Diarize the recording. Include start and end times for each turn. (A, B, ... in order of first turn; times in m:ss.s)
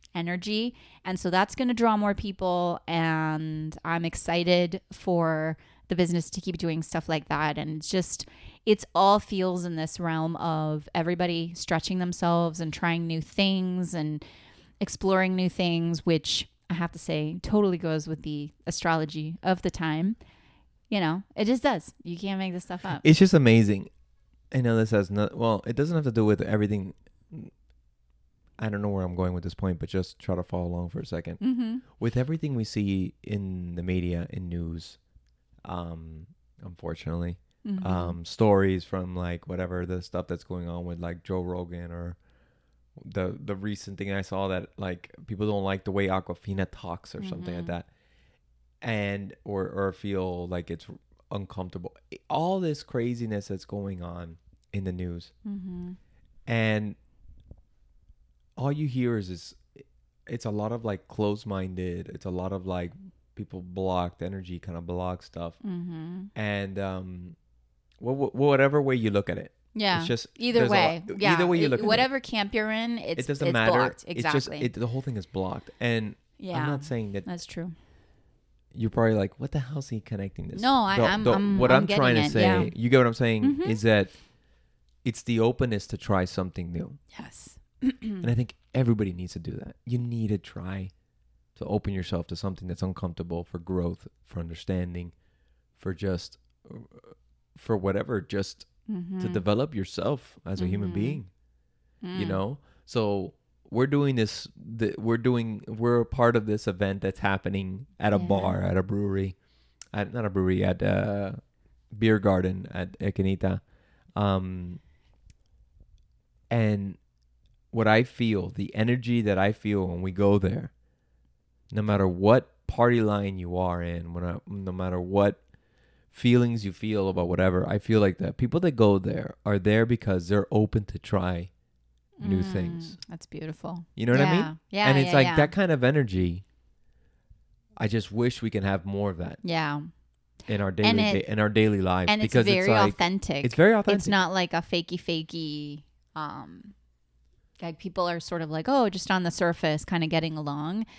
0:00.1-0:14.2 A
0:14.8-0:20.2 A
0:20.9-0:23.0 A
0:23.0-0:23.9 B
0:24.5-0:27.5 B
0:28.6-0:35.0 B
0:31.4-0:31.8 A
0:35.6-0:42.2 B
0:37.6-0:38.2 A
0:43.0-0:47.9 B
0:47.2-0:47.7 A
0:48.8-0:55.3 B
0:55.4-0:56.0 A
0:56.5-0:57.0 B
0:58.6-1:05.6 B
1:05.6-1:06.3 A
1:06.3-1:07.4 B
1:08.0-1:12.1 B
1:09.7-1:14.7 A
1:13.2-1:17.3 B
1:16.4-1:17.7 A
1:18.7-1:24.2 B
1:20.5-1:22.7 A
1:23.4-1:23.8 A
1:25.0-1:27.0 B
1:27.1-1:28.3 A
1:28.2-1:30.9 B
1:31.6-1:35.1 B
1:35.8-1:38.7 B
1:38.9-1:39.4 A
1:39.2-1:41.3 B
1:40.6-1:41.2 A
1:42.0-1:42.4 A
1:42.1-1:49.4 B
1:48.1-1:48.6 A
1:49.9-1:51.4 B
1:51.9-1:53.6 B
1:54.2-1:54.8 B
1:56.5-1:57.0 B
1:57.7-2:00.7 B
2:01.7-2:05.4 B
2:06.1-2:11.5 B
2:12.2-2:15.5 A
2:12.2-2:13.0 B
2:14.0-2:16.4 B
2:17.8-2:19.4 B
2:19.4-2:19.9 A
2:20.5-2:24.2 B
2:20.8-2:21.2 A
2:22.1-2:26.7 A
2:27.6-2:30.8 A